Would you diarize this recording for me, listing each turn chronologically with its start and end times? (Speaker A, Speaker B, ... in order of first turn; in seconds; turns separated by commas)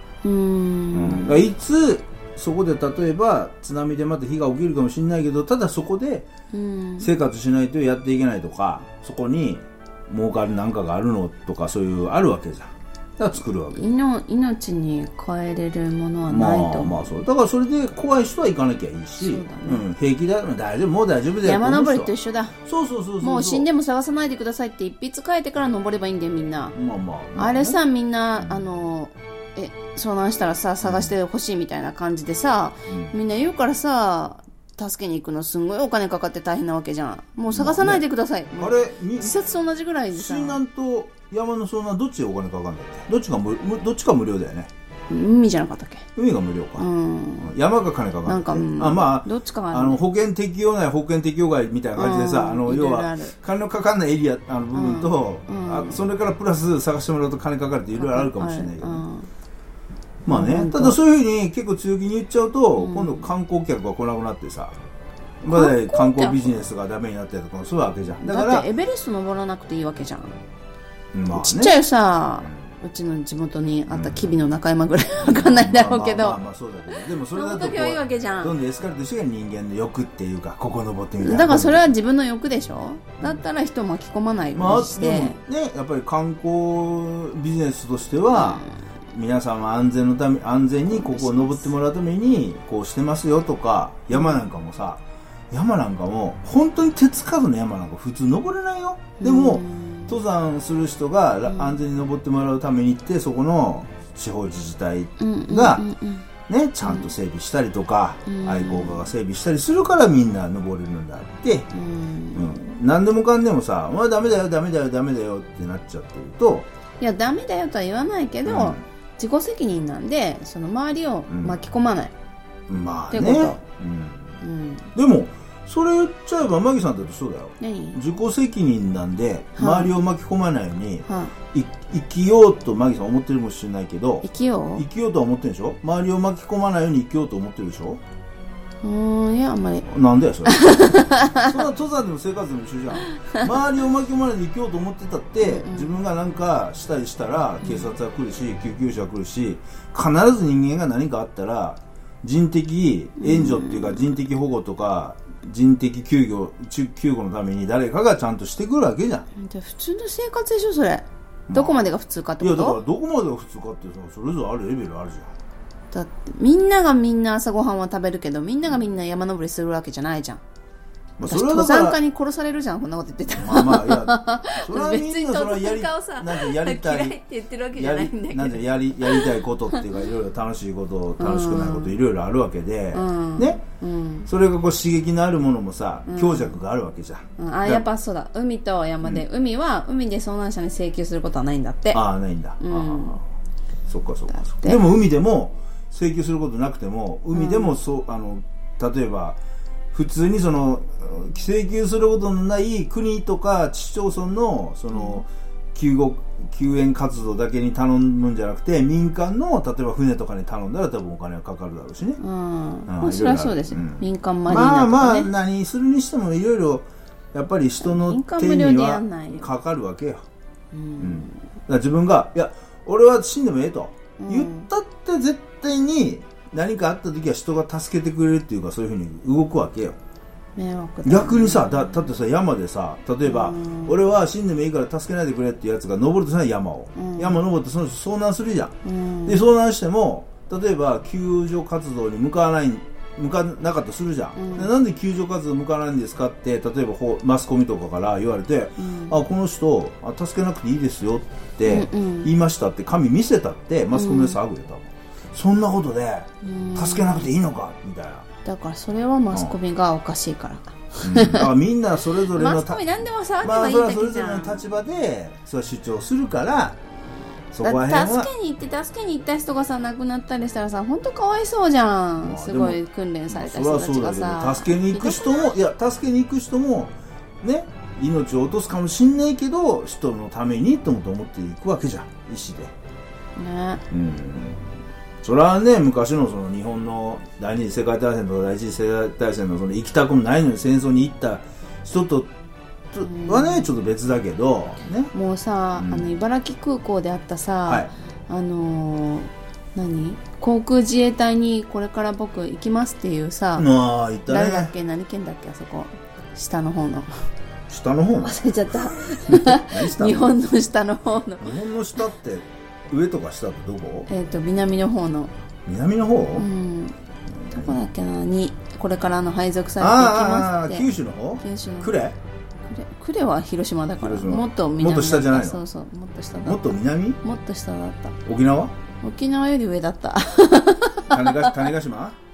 Speaker A: 0.2-1.5, Speaker B: 0.9-6.3, Speaker A: 6.5-7.1, Speaker B: 7.0-13.8, Speaker A: 13.7-17.1, Speaker B: 16.3-23.7, Speaker A: 19.2-19.8, Speaker A: 21.4-22.6, Speaker A: 23.2-26.8, Speaker B: 26.7-27.8, Speaker A: 27.4-40.6, Speaker B: 30.8-31.1, Speaker B: 32.9-33.1, Speaker B: 37.5-38.0, Speaker B: 38.5-39.4, Speaker B: 40.1-44.7, Speaker A: 45.1-46.1, Speaker B: 46.1-46.9, Speaker A: 46.8-47.5, Speaker B: 47.4-59.0, Speaker A: 48.2-50.0, Speaker A: 51.9-53.3, Speaker A: 54.7-56.0, Speaker A: 57.9-59.3, Speaker B: 60.2-64.8, Speaker A: 60.3-61.0, Speaker A: 62.8-63.3, Speaker B: 65.4-68.7, Speaker A: 65.5-66.7, Speaker A: 68.2-70.4, Speaker B: 71.1-71.8, Speaker A: 71.3-76.4, Speaker B: 72.4-72.7, Speaker B: 73.9-74.3, Speaker B: 75.2-81.9, Speaker A: 76.9-78.5, Speaker A: 81.2-85.4, Speaker B: 84.5-105.8, Speaker A: 88.3-88.7, Speaker A: 90.9-91.7, Speaker A: 94.1-94.4, Speaker A: 99.2-100.1, Speaker A: 101.5-101.8, Speaker A: 105.2-106.2, Speaker B: 106.5-111.7, Speaker A: 106.8-107.1, Speaker A: 108.3-109.1, Speaker A: 111.7-112.5, Speaker B: 112.3-116.7, Speaker A: 117.0-122.1, Speaker B: 118.5-118.8, Speaker B: 121.3-121.6, Speaker B: 122.7-124.4, Speaker A: 123.1-123.6, Speaker A: 124.4-124.9, Speaker B: 124.9-138.0, Speaker A: 127.6-128.0, Speaker A: 129.6-129.9, Speaker A: 131.1-131.3, Speaker A: 134.2-134.8, Speaker A: 138.8-139.8, Speaker B: 139.8-159.3, Speaker A: 140.5-141.6, Speaker A: 143.1-143.5, Speaker A: 145.4-145.9, Speaker A: 147.6-147.9, Speaker A: 153.2-154.0, Speaker A: 159.3-162.8, Speaker B: 161.5-161.9, Speaker B: 162.4-165.3, Speaker A: 165.9-170.4, Speaker B: 171.2-172.0, Speaker A: 171.2-179.8, Speaker B: 173.3-177.2, Speaker B: 177.7-183.6, Speaker A: 181.2-181.9, Speaker A: 182.9-184.3, Speaker B: 184.3-187.8, Speaker A: 186.1-186.6, Speaker A: 187.4-192.0, Speaker B: 191.9-193.2, Speaker A: 192.6-193.2, Speaker B: 193.9-199.4, Speaker A: 194.3-194.8, Speaker A: 197.3-197.8, Speaker B: 199.9-212.2, Speaker A: 204.9-205.2, Speaker A: 212.2-215.3, Speaker B: 212.9-220.2, Speaker A: 217.8-219.5, Speaker A: 220.7-221.4, Speaker B: 221.0-230.0, Speaker A: 224.2-224.7, Speaker A: 230.6-232.0, Speaker B: 231.0-258.2, Speaker A: 233.2-234.0, Speaker A: 236.9-237.4, Speaker A: 238.8-239.4, Speaker A: 244.3-244.7, Speaker A: 248.8-249.2, Speaker A: 251.7-252.3, Speaker A: 253.9-254.4, Speaker A: 256.4-257.3, Speaker A: 258.4-261.5, Speaker B: 261.0-262.8, Speaker A: 262.3-264.6, Speaker B: 263.4-266.8, Speaker B: 267.5-268.3, Speaker A: 267.6-275.6, Speaker B: 272.2-282.7, Speaker A: 283.4-283.8, Speaker B: 283.9-292.3, Speaker B: 292.9-295.1, Speaker A: 293.0-293.7, Speaker A: 295.1-303.7, Speaker B: 295.8-296.1, Speaker B: 303.6-304.7, Speaker A: 304.3-307.1, Speaker B: 307.7-310.3, Speaker A: 308.2-311.5, Speaker B: 311.4-314.1, Speaker A: 314.1-315.3, Speaker B: 315.6-316.5, Speaker A: 316.3-317.0, Speaker B: 317.3-317.8, Speaker A: 317.5-321.9, Speaker B: 319.8-322.2, Speaker A: 322.7-328.1, Speaker B: 324.0-325.6, Speaker B: 326.4-327.2, Speaker B: 328.2-328.7, Speaker A: 329.0-331.7, Speaker B: 331.1-332.2